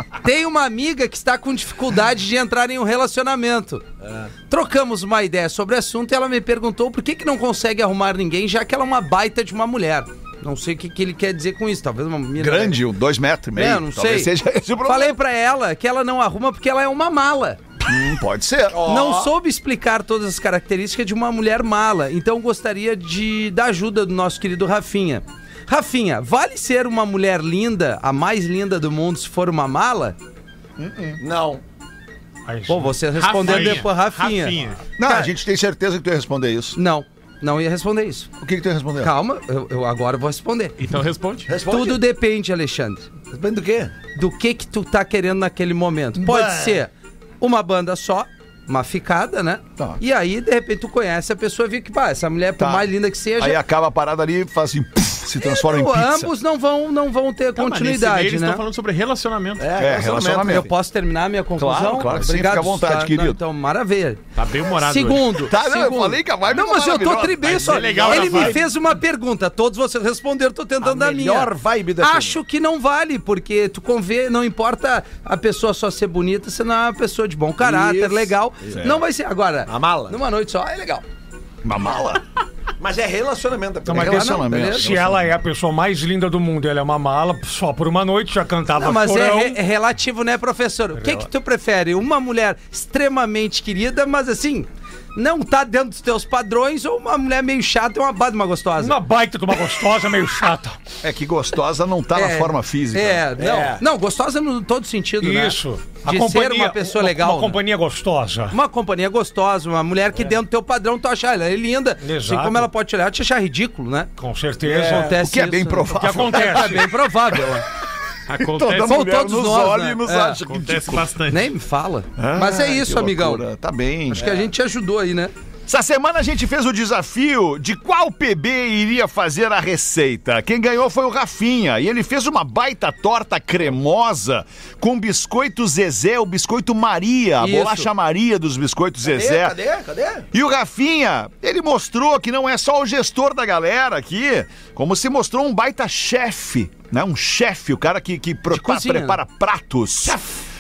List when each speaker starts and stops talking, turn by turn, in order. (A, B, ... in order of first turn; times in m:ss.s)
0:00.2-0:03.8 A
0:04.5-0:12.8 A
0:12.4-0:15.2 B
0:13.6-0:17.6 A
0:17.8-0:18.9 B
0:18.7-0:19.3 C
0:18.8-0:30.2 A
0:30.8-0:31.2 B
0:31.2-0:31.6 C
0:32.5-0:33.8 D
0:32.7-0:34.6 A
0:33.2-0:34.8 E
0:35.0-0:36.8 B
0:36.8-0:38.3 A
0:38.4-0:39.1 B
0:39.0-0:40.8 A
0:40.8-0:41.5 E
0:41.5-0:42.0 C
0:41.7-0:43.1 A
0:43.3-0:44.0 C
0:44.2-0:53.6 A
0:46.2-0:46.8 C
0:52.6-0:56.3 B
0:55.5-0:58.6 A
0:57.6-0:59.7 E
0:59.6-1:00.7 C
0:59.8-1:00.7 B
1:00.4-1:04.2 A
1:01.6-1:03.4 B
1:04.4-1:05.3 E
1:04.8-1:21.0 A
1:05.5-1:07.7 B
1:07.4-1:08.6 E
1:07.6-1:08.6 C
1:10.8-1:12.4 C
1:17.6-1:18.9 C
1:19.7-1:20.2 C
1:21.6-1:22.2 B
1:22.8-1:24.1 C
1:23.9-1:29.6 D
1:23.9-1:25.3 B
1:24.0-1:24.9 A
1:28.8-1:39.0 A
1:31.0-1:31.3 D
1:38.8-1:40.8 D
1:41.0-1:43.2 B
1:42.2-1:47.6 A
1:43.4-1:43.8 C
1:45.2-1:48.6 D
1:48.5-1:54.1 A
1:52.0-1:52.7 D
1:54.2-1:55.2 D
1:54.7-1:57.6 A
1:54.8-1:55.0 C
1:55.1-1:57.4 B
1:55.9-1:56.9 D
1:58.3-1:59.0 E
1:58.3-2:01.2 B
1:58.8-2:00.4 A
2:00.5-2:01.5 E
2:01.3-2:03.4 A
2:02.2-2:04.3 B
2:04.1-2:05.3 A
2:04.2-2:04.5 C
2:05.7-2:19.6 B
2:17.4-2:17.9 A
2:19.0-2:20.3 C
2:20.3-2:30.2 B
2:28.5-2:29.2 A